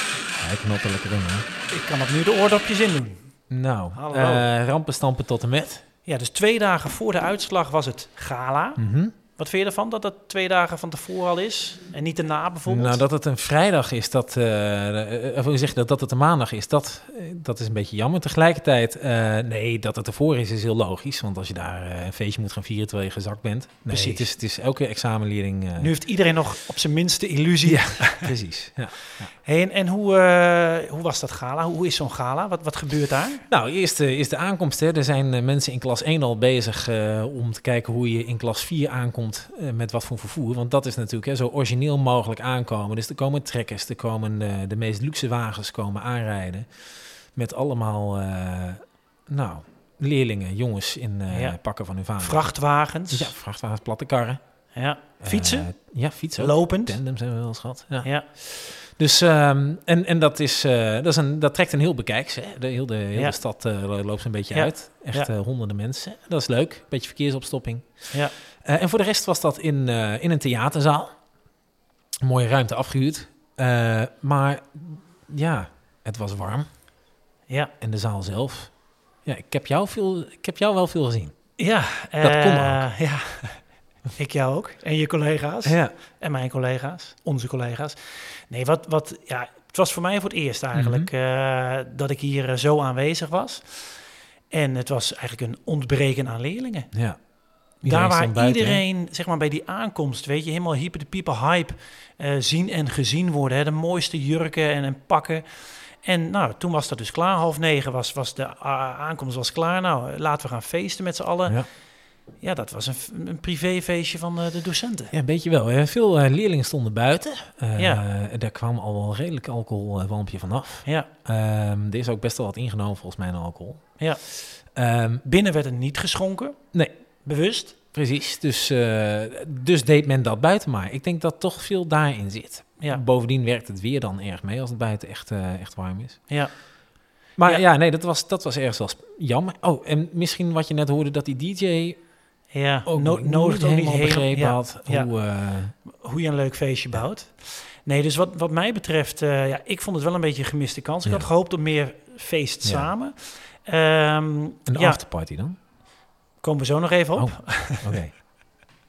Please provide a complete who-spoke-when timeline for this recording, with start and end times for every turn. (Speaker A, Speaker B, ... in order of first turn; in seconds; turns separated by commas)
Speaker A: 0.4-1.5, Speaker B: 1.7-3.3, Speaker A: 3.5-5.8, Speaker B: 4.0-4.5, Speaker B: 6.0-13.0, Speaker A: 8.8-9.1, Speaker A: 12.7-25.9, Speaker B: 23.9-24.3, Speaker B: 25.8-28.3, Speaker A: 27.6-29.3, Speaker B: 29.4-33.5, Speaker A: 33.5-52.5, Speaker B: 51.3-51.6, Speaker B: 52.2-53.3, Speaker A: 53.1-54.4, Speaker B: 54.7-55.7, Speaker A: 55.2-67.9, Speaker B: 56.4-57.0, Speaker B: 64.5-65.3, Speaker A: 68.7-71.1, Speaker A: 72.2-76.7, Speaker B: 77.5-77.7, Speaker A: 77.8-78.7, Speaker A: 79.2-81.3, Speaker B: 81.6-83.6, Speaker A: 82.2-82.8, Speaker B: 84.2-96.9, Speaker A: 85.6-85.9, Speaker A: 90.7-91.1, Speaker A: 96.9-97.2, Speaker B: 97.8-111.6, Speaker A: 97.8-98.8, Speaker B: 112.4-115.1, Speaker A: 115.1-123.8, Speaker B: 117.8-118.0, Speaker A: 124.8-125.2, Speaker B: 125.2-126.6, Speaker B: 127.2-127.8, Speaker A: 127.9-136.2, Speaker A: 137.4-142.0, Speaker B: 142.5-145.1, Speaker A: 142.9-145.7, Speaker B: 145.9-155.0, Speaker A: 152.6-152.9, Speaker A: 154.7-155.6, Speaker B: 156.4-158.0, Speaker A: 157.2-158.1